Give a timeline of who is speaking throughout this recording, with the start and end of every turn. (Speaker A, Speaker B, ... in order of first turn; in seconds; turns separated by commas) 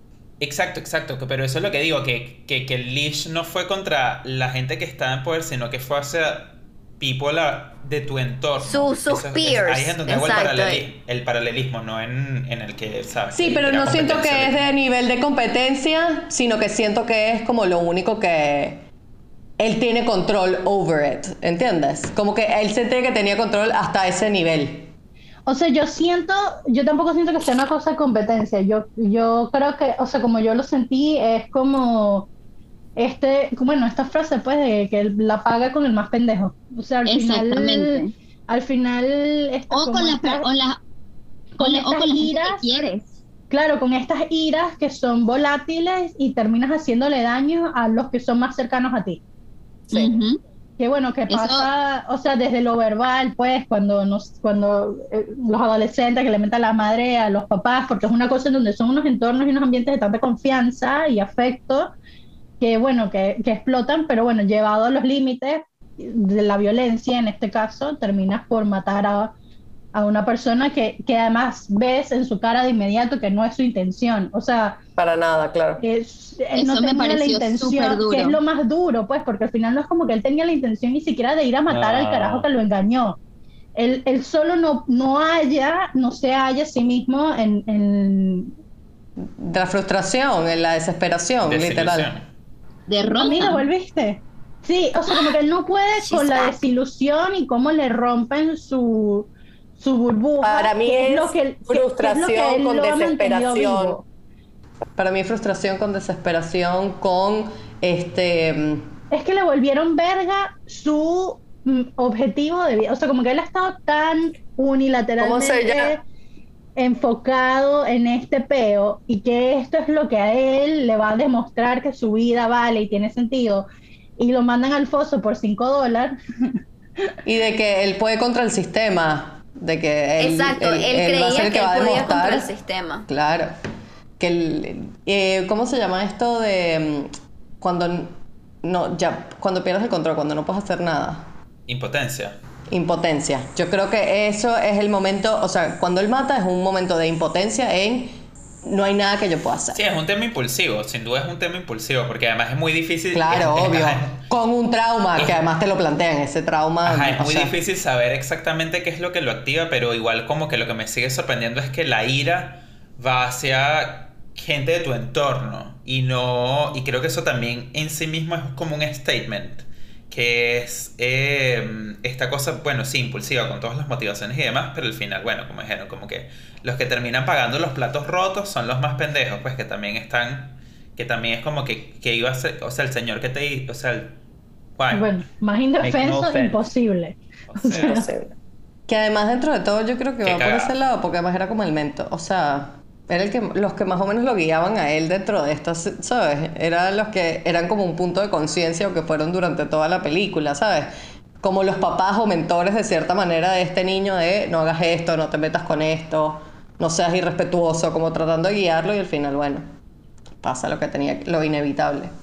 Speaker A: 0.4-14.6, Speaker B: 8.6-10.8, Speaker C: 13.3-18.9, Speaker C: 19.6-24.9, Speaker D: 25.4-32.3, Speaker D: 33.0-40.5, Speaker E: 37.0-38.1, Speaker E: 39.7-40.8, Speaker D: 41.6-42.6, Speaker E: 41.6-43.1, Speaker D: 43.5-49.2, Speaker E: 49.9-50.4, Speaker D: 50.8-61.9, Speaker E: 51.3-51.7, Speaker D: 62.6-69.3, Speaker D: 69.9-74.8, Speaker C: 75.0-75.8, Speaker D: 75.8-83.2, Speaker E: 76.5-78.4, Speaker A: 81.7-82.5, Speaker D: 83.8-88.5, Speaker C: 89.2-92.1, Speaker A: 91.4-92.2, Speaker E: 92.9-93.7, Speaker D: 93.2-104.0, Speaker B: 96.0-96.6, Speaker C: 100.4-104.0, Speaker C: 105.0-108.9, Speaker D: 109.1-116.0, Speaker C: 115.2-116.0, Speaker D: 116.8-123.7, Speaker D: 124.2-126.5, Speaker C: 127.2-132.5, Speaker B: 130.2-133.1, Speaker C: 133.1-133.6, Speaker C: 134.2-141.3, Speaker A: 141.7-142.4, Speaker C: 142.7-149.8, Speaker A: 149.7-154.2, Speaker C: 153.1-157.5, Speaker A: 155.2-155.4, Speaker A: 156.8-184.2, Speaker A: 184.8-185.1, Speaker D: 184.9-188.1, Speaker A: 185.8-186.7, Speaker A: 187.5-188.1, Speaker C: 187.7-188.3, Speaker C: 188.9-200.9, Speaker A: 190.2-190.8, Speaker C: 201.4-209.7, Speaker C: 210.4-212.1